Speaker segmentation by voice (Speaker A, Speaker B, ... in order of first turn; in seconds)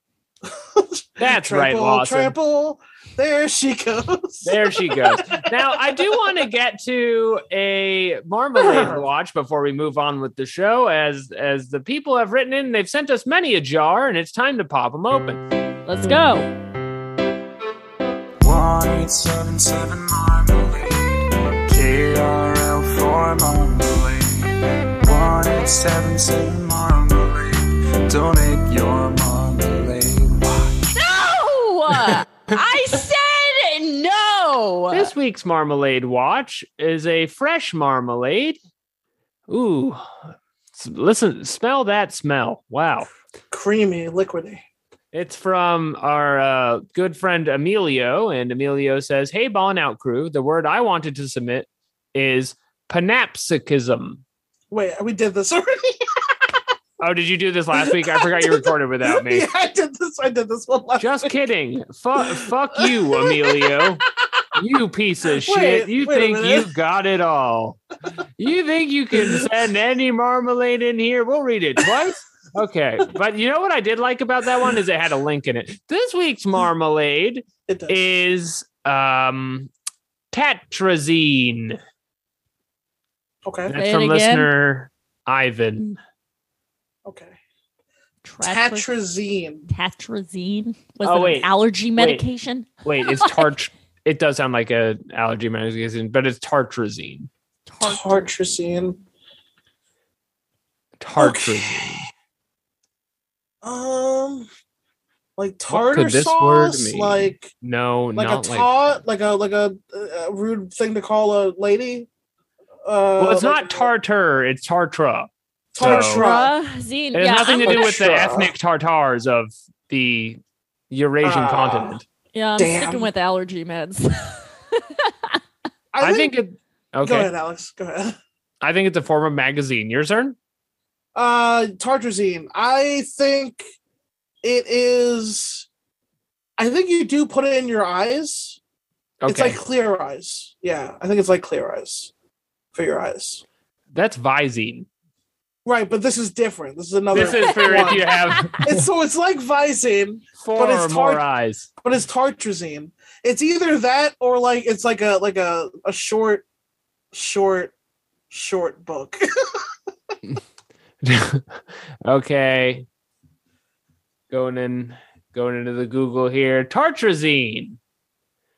Speaker A: 0.4-6.0, 8.6-9.0, 43.5-44.6, 54.7-56.6, 57.7-61.3, 62.2-63.9, 65.3-66.7, 69.1-69.5, 77.7-78.0, 83.4-83.7, 87.0-87.4, 88.4-89.7, 97.8-99.0, 101.2-101.9, 103.6-104.5, 105.4-107.5, 108.1-112.1, 112.8-113.9, 115.7-116.5, 117.6-118.5, 121.2-122.0, 122.6-123.1, 125.9-126.3, 127.0-128.2, 131.1-133.6, 134.4-135.7, 136.6-138.6, 139.2-142.1, 142.7-143.4, 145.6-148.1, 148.6-151.2, 151.8-156.4, 157.1-157.7, 158.3-159.7
Speaker B: 1.2-2.3, 4.4-15.4, 34.9-38.6, 39.5-40.1, 40.7-43.1, 45.1-54.2, 57.0-59.5, 61.0-64.0, 64.5-67.8, 68.4-79.7, 80.3-81.8, 83.7-86.0, 91.0-92.2, 92.8-97.3, 101.0-102.0, 105.7-108.7, 113.2-116.2, 117.1-120.4, 120.9-122.0, 126.0-127.3, 128.6-130.3, 139.2-139.6, 143.9-144.9, 147.1-148.7, 150.4-151.7, 161.0-162.8, 164.3-167.8
Speaker C: 15.8-16.5, 30.9-35.1, 83.7-84.5, 88.2-88.9, 89.7-93.5, 97.7-98.3, 115.8-118.0, 122.3-125.4, 147.5-148.4
Speaker D: 18.4-30.9